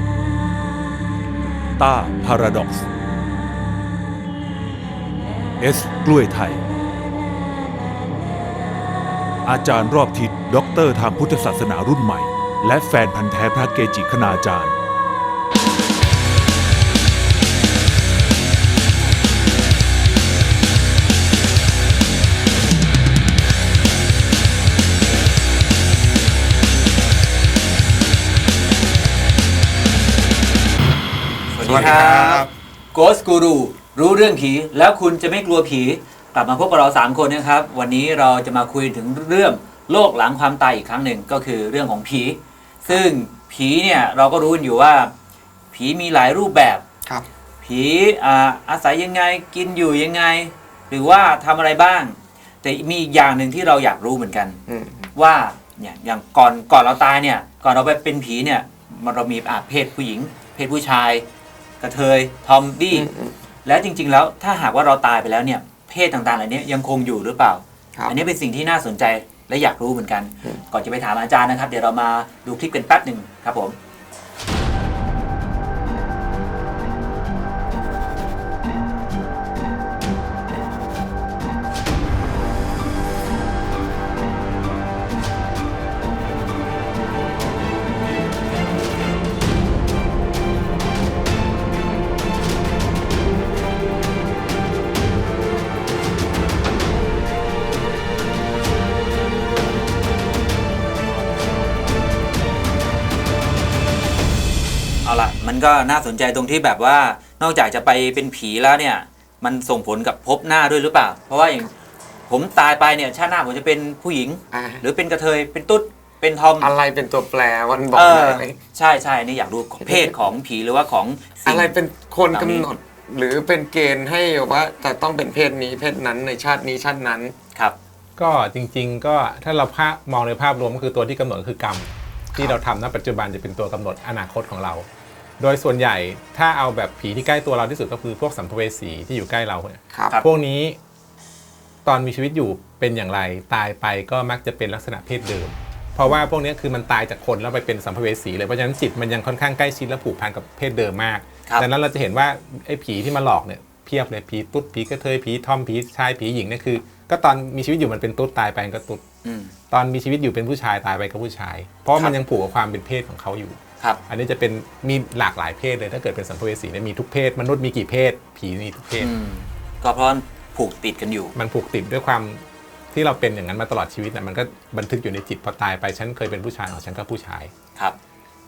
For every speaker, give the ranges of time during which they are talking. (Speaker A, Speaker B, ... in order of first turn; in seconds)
Speaker A: 1.8-2.9, 5.6-6.6, 9.4-14.8
Speaker B: 31.5-45.1, 45.7-46.8, 47.6-54.6, 55.1-61.2, 61.8-63.1, 63.6-73.8, 105.0-111.7, 112.3-116.7, 117.9-121.7, 122.3-122.7, 159.2-159.5, 169.0-171.3
Speaker C: 31.6-32.5, 54.7-55.1, 62.9-63.4, 114.5-114.8, 116.6-118.6, 119.8-120.3, 121.5-127.3
Speaker D: 128.2-134.8, 135.4-140.8, 141.8-159.0, 159.7-169.1, 171.3-177.5